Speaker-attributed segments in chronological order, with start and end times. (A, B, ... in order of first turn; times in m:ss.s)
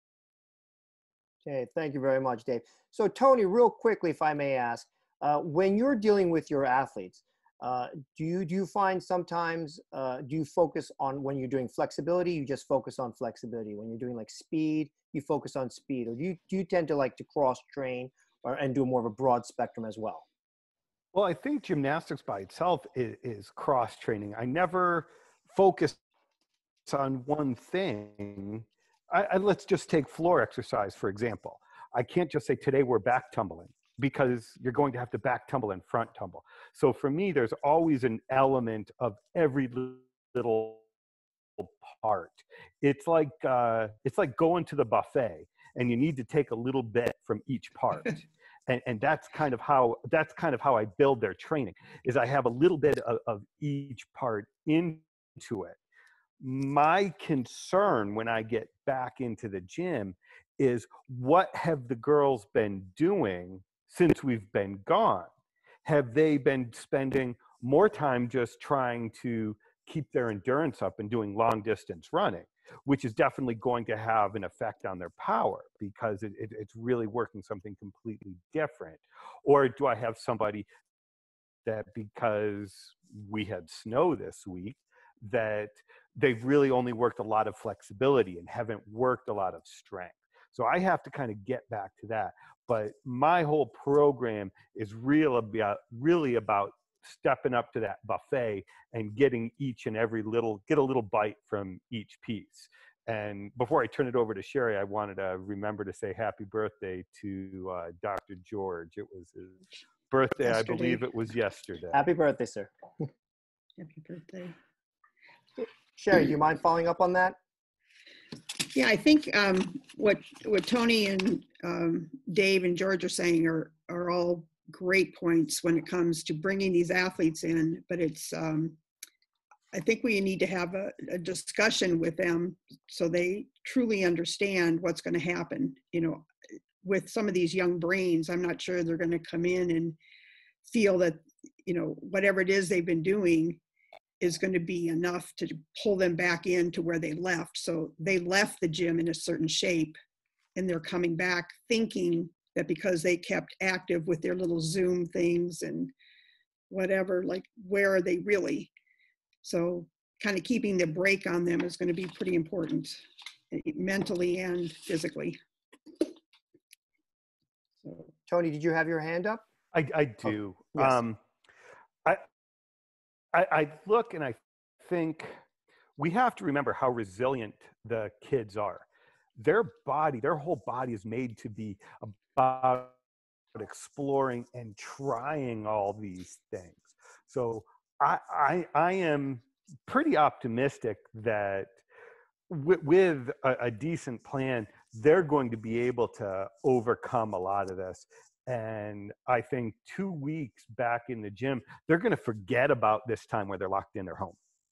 0:01.4-0:20.2 A
0:21.1-0:26.0 B
0:26.9-0:40.8 B
0:41.6-0:55.8 B
0:56.4-1:05.3 B
1:05.8-1:20.7 B
1:21.6-1:52.0 B
1:50.5-1:50.9 A
1:51.9-1:52.7 A
1:53.8-1:54.6 C
1:56.0-1:57.4 A
1:58.7-2:08.8 C
2:09.7-2:16.3 C
2:16.8-2:20.0 C
2:20.6-2:23.6 C
2:24.2-2:30.0 C
2:30.6-2:35.9 C
2:36.7-2:38.7 C
2:39.4-2:45.4 C
2:47.8-2:48.1 C
2:48.3-2:49.4 A
2:49.7-2:51.2 B
2:53.3-2:55.4 B
2:56.0-2:58.8 B
2:59.4-3:02.9 B
3:03.5-3:11.7 B
3:12.5-3:24.4 B